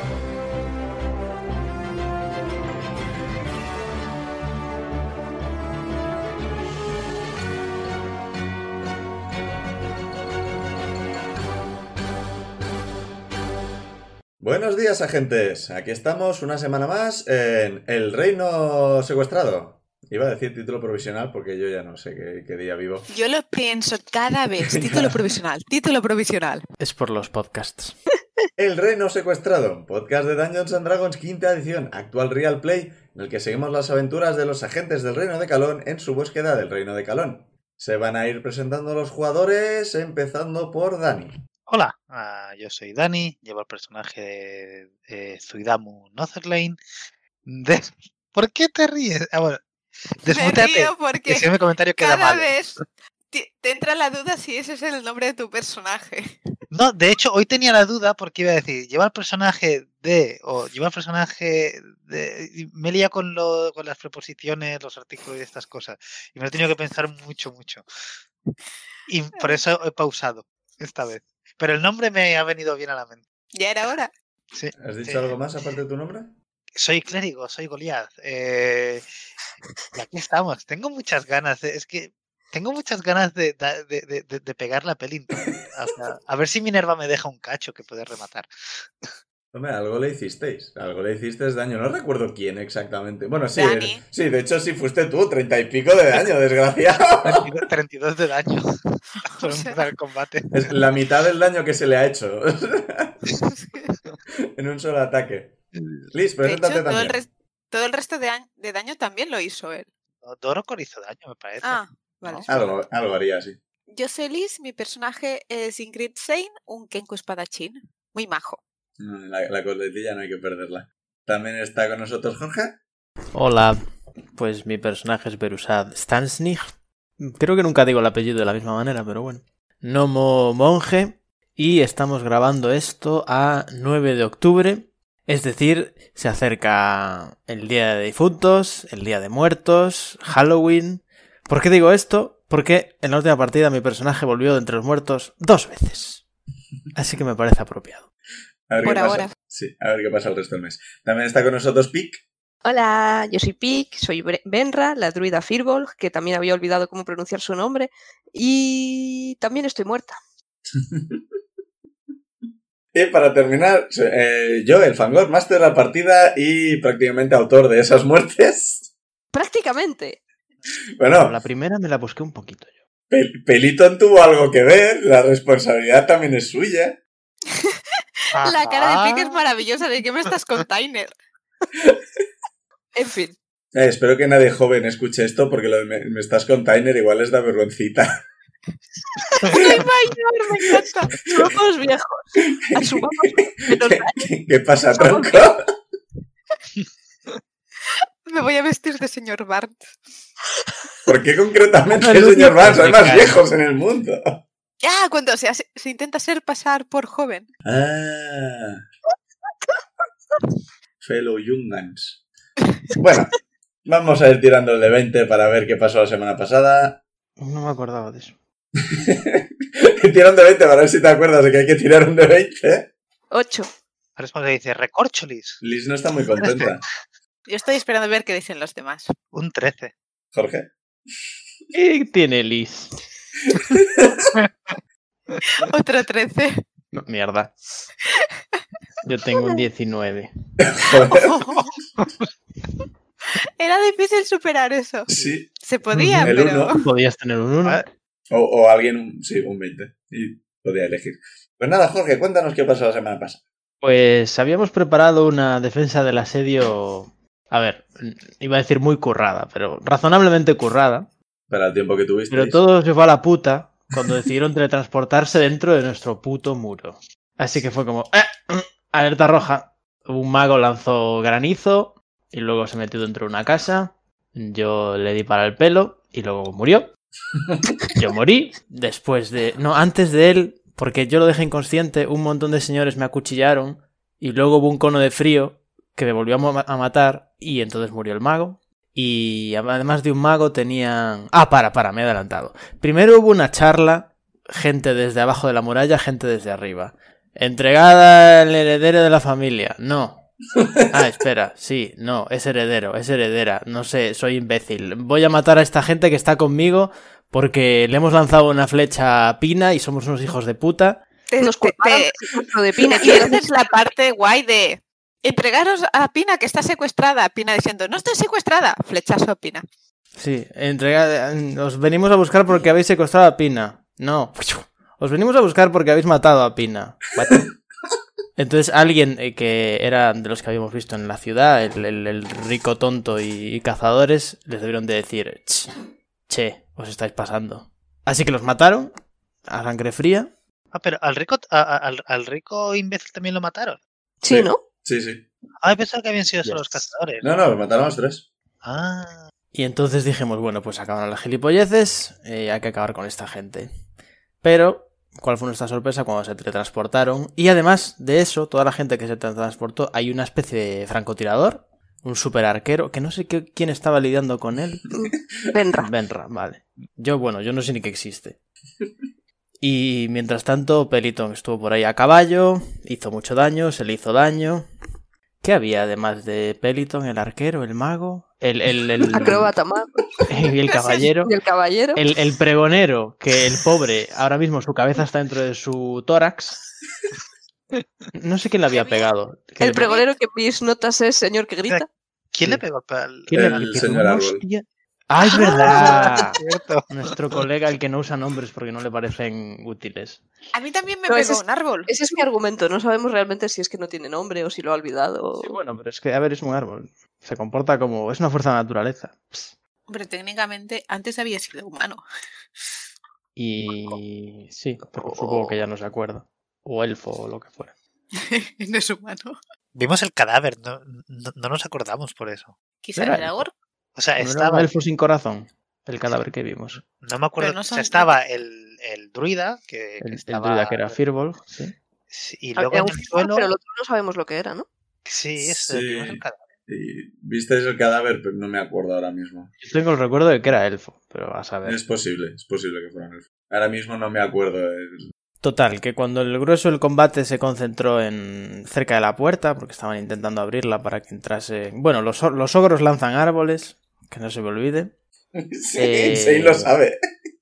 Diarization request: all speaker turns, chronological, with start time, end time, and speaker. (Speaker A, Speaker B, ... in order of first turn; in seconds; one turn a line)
Speaker A: 14.4-23.1
Speaker B: 23.1-26.6
Speaker A: 24.6-25.2
Speaker C: 26.8-28.0
Speaker A: 28.6-41.3
Speaker D: 41.7-46.8
Speaker D: 47.5-49.6
Speaker D: 50.2-52.5
Speaker B: 50.3-56.4
Speaker D: 56.7-67.8
Speaker D: 69.1-73.2
Speaker B: 73.5-74.1
Speaker D: 74.5-75.3
Speaker A: 74.8-76.3
Speaker D: 76.8-79.0
Speaker D: 79.9-88.5
Speaker A: 89.5-97.4
Speaker B: 93.5-94.0
Speaker D: 97.2-98.7
Speaker B: 99.2-99.9
Speaker D: 99.4-100.8
Speaker A: 100.5-103.3
Speaker B: 103.4-103.9
Speaker A: 104.5-105.5
Speaker D: 105.8-106.1
Speaker A: 106.1-107.1
Speaker B: 106.4-109.9
Speaker D: 110.2-112.8
Speaker B: 111.6-112.7
Speaker A: 112.5-113.6
Speaker B: 113.9-118.6
Speaker A: 119.0-122.8
Speaker C: 123.3-123.8
Speaker C: 124.3-126.6
Speaker C: 127.2-146.2
Speaker C: 146.9-148.1
Speaker A: 148.7-152.2
Speaker B: 148.8-149.3
Speaker E: 152.6-160.2
Speaker A: 160.8-161.2
Speaker A: 162.9-168.9
Speaker E: 169.3-170.2
Speaker A: 171.0-171.4
Speaker C: 171.1-172.7
Speaker A: 173.1-177.0
Speaker D: 178.3-179.3
Speaker B: 178.4-181.1
Speaker E: 178.4-179.1
Speaker E: 182.9-183.4
Speaker A: 183.7-188.2
Speaker B: 189.4-191.2
Speaker E: 191.2-194.3
Speaker A: 192.7-193.0
Speaker A: 193.6-195.6
Speaker E: 194.9-195.5
Speaker B: 198.2-199.9
Speaker A: 201.1-204.4
Speaker C: 202.0-203.4
Speaker B: 204.8-207.5
Speaker A: 207.7-208.8
Speaker A: 211.0-212.2
Speaker A: 213.0-213.3
Speaker A: 213.8-217.0
Speaker C: 217.4-218.3
Speaker A: 218.9-222.9
Speaker E: 223.3-223.7
Speaker D: 224.2-225.6
Speaker A: 225.6-226.8
Speaker D: 226.4-226.7
Speaker B: 227.5-229.1
Speaker D: 229.3-229.9
Speaker A: 230.3-230.7
Speaker C: 231.7-232.9
Speaker A: 233.5-234.4
Speaker B: 235.4-236.6
Speaker C: 236.9-237.5
Speaker C: 239.0-240.3
Speaker A: 240.6-241.4
Speaker B: 241.1-241.8
Speaker B: 243.6-246.8
Speaker A: 245.1-245.5
Speaker D: 245.1-245.4
Speaker C: 245.9-247.9
Speaker A: 246.2-246.7
Speaker A: 248.3-253.4
Speaker C: 253.8-261.1
Speaker A: 261.5-262.6
Speaker C: 262.3-276.9
Speaker C: 277.9-300.2
Speaker A: 300.6-300.8
Speaker C: 300.9-311.0
Speaker B: 311.3-319.6
Speaker E: 311.4-313.7
Speaker C: 320.2-327.5
Speaker C: 328.4-335.7
Speaker C: 336.3-338.9
Speaker C: 339.4-340.3
Speaker D: 340.7-343.8
Speaker E: 344.2-344.6
Speaker A: 344.3-345.2
Speaker D: 345.6-347.3
Speaker C: 346.4-346.8
Speaker A: 347.2-348.2
Speaker D: 348.6-349.2
Speaker C: 349.5-353.7
Speaker C: 354.4-364.9
Speaker E: 364.9-365.9
Speaker C: 365.8-368.4
Speaker C: 369.6-374.6
Speaker C: 375.4-379.5
Speaker E: 379.1-379.9
Speaker C: 380.3-381.3
Speaker B: 380.7-381.1
Speaker E: 381.2-382.0
Speaker C: 381.9-386.6
Speaker C: 388.1-389.9
Speaker B: 388.7-389.1
Speaker E: 389.6-391.9
Speaker D: 391.7-393.9
Speaker C: 393.3-396.4
Speaker A: 393.3-394.4
Speaker B: 395.2-395.9
Speaker D: 395.4-396.9
Speaker C: 396.9-400.2
Speaker B: 400.5-401.9
Speaker E: 401.1-405.6
Speaker C: 405.4-409.6
Speaker B: 409.9-412.0
Speaker C: 413.4-417.8
Speaker E: 414.9-415.6
Speaker B: 418.2-419.4
Speaker D: 419.7-422.6
Speaker B: 422.8-423.5
Speaker C: 422.9-423.4
Speaker D: 423.9-424.7
Speaker C: 424.2-426.8
Speaker D: 426.8-431.0
Speaker B: 427.4-428.1
Speaker C: 430.0-431.8
Speaker D: 432.1-433.5
Speaker E: 432.6-434.7
Speaker D: 435.1-436.4
Speaker A: 435.4-439.5
Speaker C: 439.6-441.8
Speaker A: 441.6-445.1
Speaker C: 445.4-454.9
Speaker A: 455.4-457.0
Speaker C: 455.8-456.7